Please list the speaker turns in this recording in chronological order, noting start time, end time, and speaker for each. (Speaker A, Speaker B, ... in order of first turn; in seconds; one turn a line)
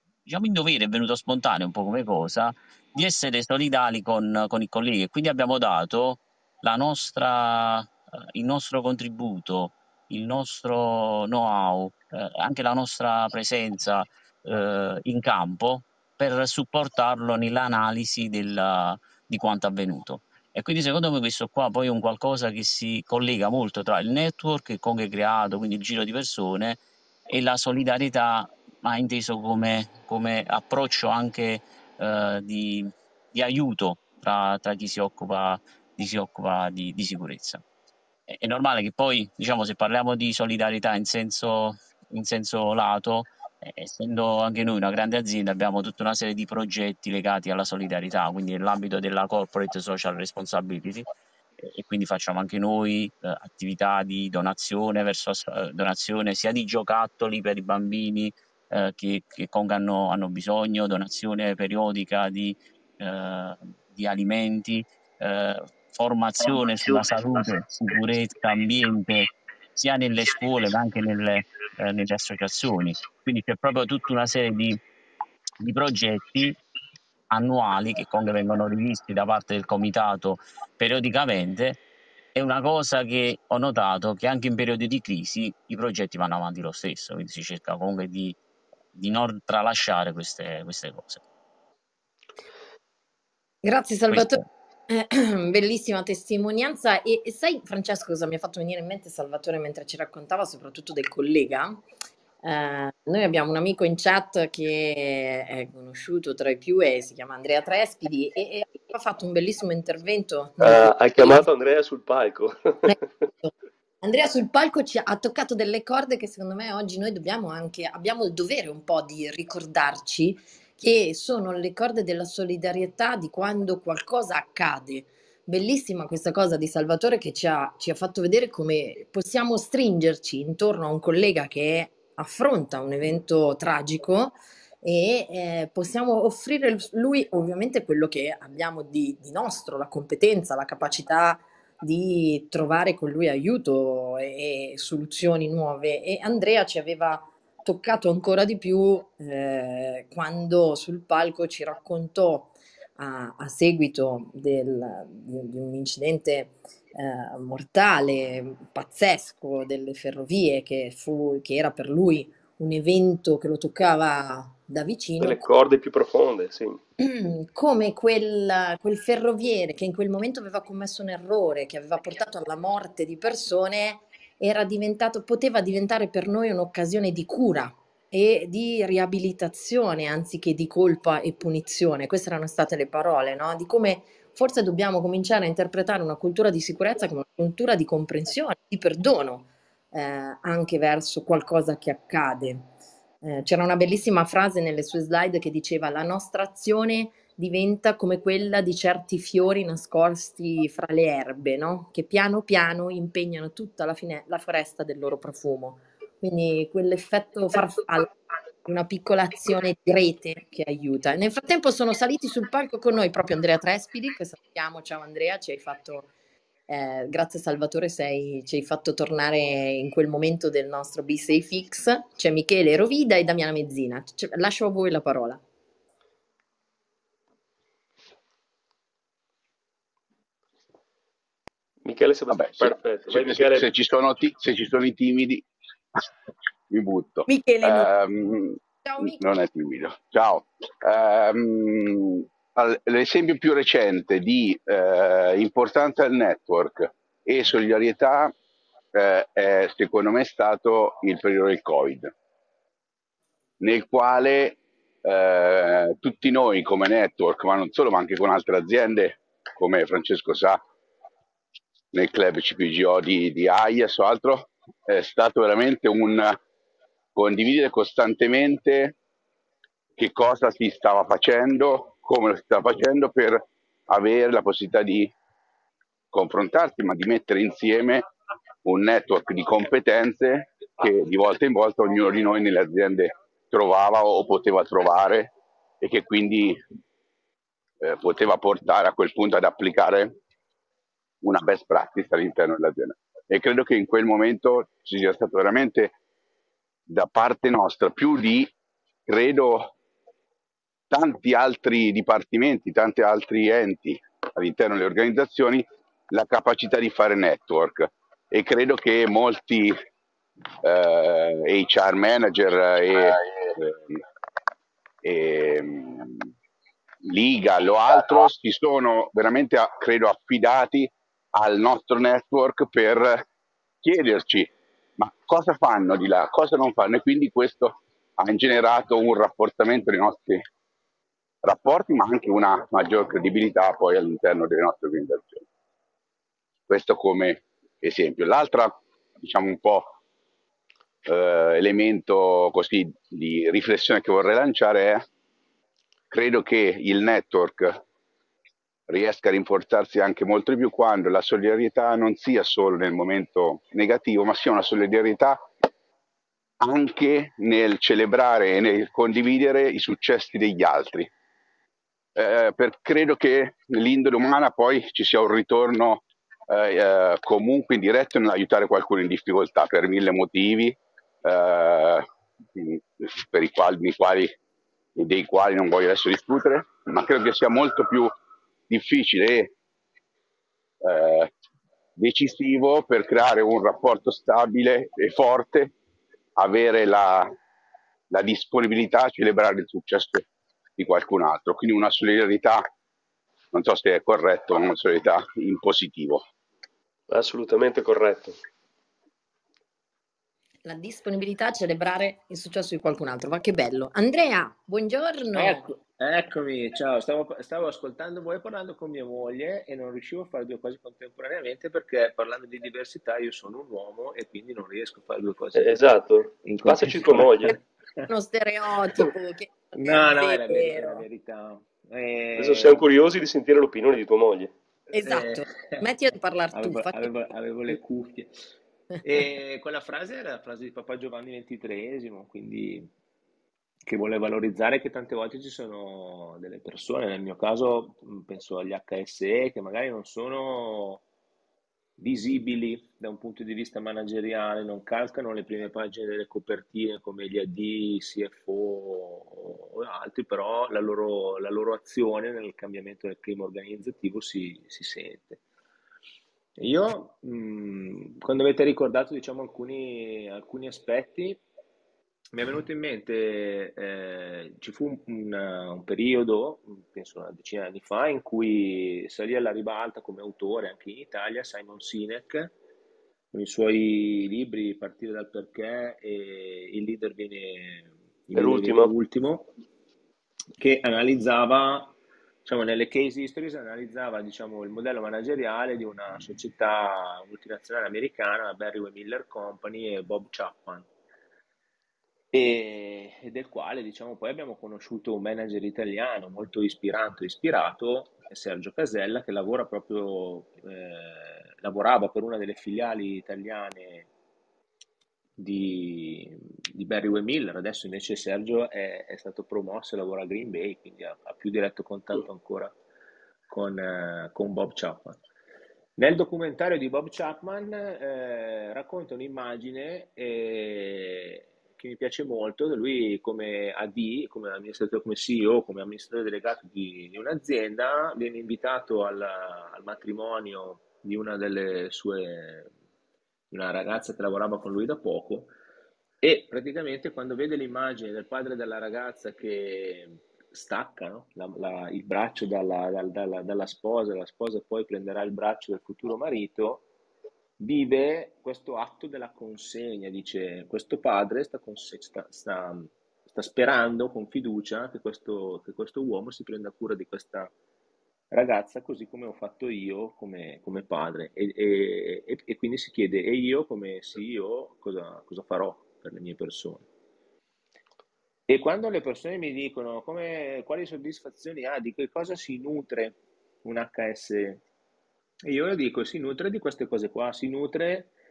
Speaker A: 0.2-37.6
Speaker A: 38.3-51.1
Speaker A: 51.6-74.8
Speaker A: 75.6-76.6
Speaker A: 77.3-81.8
Speaker A: 82.3-88.4
Speaker A: 88.9-91.2
Speaker B: 93.6-101.8
Speaker A: 94.1-94.4
Speaker B: 102.4-111.5
Speaker C: 110.6-113.0
Speaker B: 112.8-165.4
Speaker C: 165.2-166.8
Speaker B: 167.0-192.7
Speaker B: 193.2-216.1
Speaker B: 216.7-225.4
Speaker C: 231.8-233.7
Speaker D: 232.3-235.4
Speaker D: 236.7-248.3
Speaker B: 237.3-237.9
Speaker B: 238.8-239.2
Speaker D: 248.9-252.1
Speaker D: 253.6-260.6
Speaker D: 261.9-266.4
Speaker D: 267.1-268.9
Speaker D: 270.0-275.1
Speaker D: 276.1-278.1
Speaker D: 278.6-286.6
Speaker D: 287.8-290.1
Speaker D: 291.2-295.9
Speaker D: 296.9-298.5
Speaker D: 299.1-299.7
Speaker D: 300.9-309.8
Speaker D: 310.6-314.0
Speaker D: 315.0-316.3
Speaker D: 317.0-323.2
Speaker D: 323.8-330.4
Speaker D: 331.4-335.4
Speaker D: 336.7-339.9
Speaker D: 341.1-345.1
Speaker D: 346.1-347.8
Speaker D: 348.9-355.4
Speaker D: 356.6-361.1
Speaker D: 362.1-374.3
Speaker D: 374.9-378.1
Speaker D: 378.7-379.5
Speaker D: 380.8-381.3
Speaker D: 382.0-385.7
Speaker D: 386.4-387.3
Speaker D: 388.1-390.2
Speaker D: 390.8-392.7
Speaker D: 393.5-396.2
Speaker C: 397.1-398.4
Speaker B: 400.6-405.7
Speaker E: 405.3-415.8
Speaker C: 415.6-417.5
Speaker E: 416.4-418.0
Speaker B: 418.1-421.1
Speaker E: 419.7-422.8
Speaker C: 422.4-424.5
Speaker B: 424.9-427.2
Speaker E: 425.0-425.8
Speaker E: 426.5-428.3
Speaker E: 429.0-432.9
Speaker E: 433.8-441.0
Speaker E: 442.0-455.4
Speaker E: 456.6-461.4
Speaker E: 462.3-472.5
Speaker E: 473.3-479.5
Speaker C: 478.3-478.9
Speaker E: 480.6-490.9
Speaker E: 492.3-504.1
Speaker E: 505.4-512.7
Speaker E: 513.5-515.2
Speaker E: 516.0-532.7
Speaker E: 533.5-535.5
Speaker E: 536.2-546.8
Speaker E: 547.6-557.5
Speaker E: 558.3-566.9
Speaker E: 568.5-574.6
Speaker E: 575.5-578.1